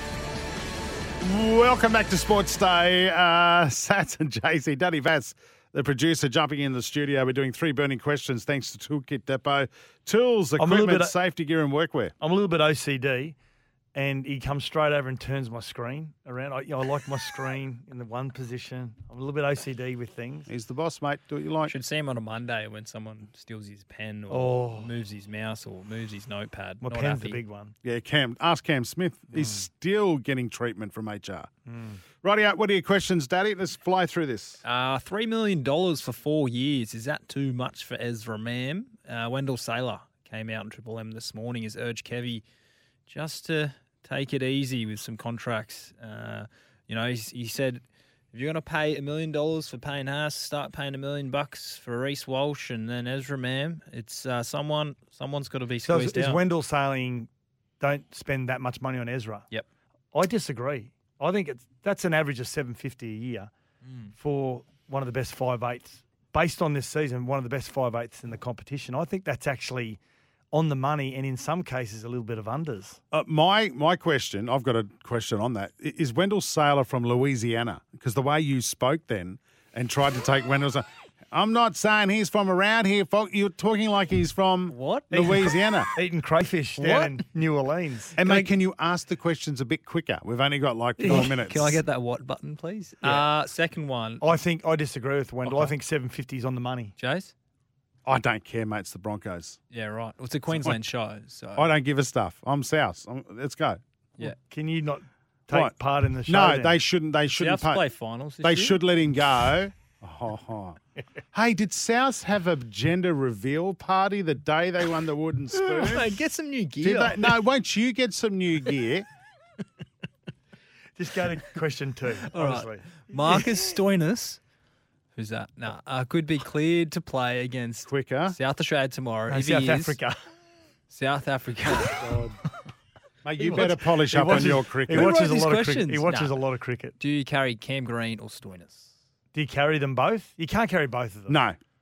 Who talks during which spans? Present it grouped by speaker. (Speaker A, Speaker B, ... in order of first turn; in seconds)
Speaker A: 1.2-12.1, 20.5-21.7, 27.8-31.5, 32.2-34.6, 73.1-85.9, 88.2-91.8, 98.0-99.6, 100.5-100.8, 101.5-103.8, 106.3-107.8, 108.4-110.8, 111.3-116.1, 116.8-119.0, 127.9-128.3, 132.0-132.3, 133.2-135.2, 141.3-141.6
Speaker B: 10.6-11.1, 12.2-13.3, 13.9-20.5, 24.3-24.9, 26.8-27.7, 31.7-32.0, 55.9-57.3, 57.8-59.5, 60.1-63.5, 64.2-70.0, 70.5-73.0, 85.1-88.5, 91.0-91.3, 94.2-96.9, 104.2-106.8, 121.0-123.5, 129.3-130.2, 133.4-136.9, 139.3-141.4
Speaker C: 21.7-27.4, 34.6-42.4, 43.1-56.4, 63.8-64.1, 84.7-85.1, 86.8-87.2, 91.1-94.3, 95.4-95.7, 97.0-97.3, 99.7-101.7, 107.4-108.8, 115.6-117.4, 122.3-124.4, 125.1-130.0, 130.9-132.3, 134.9-136.4, 137.0-138.9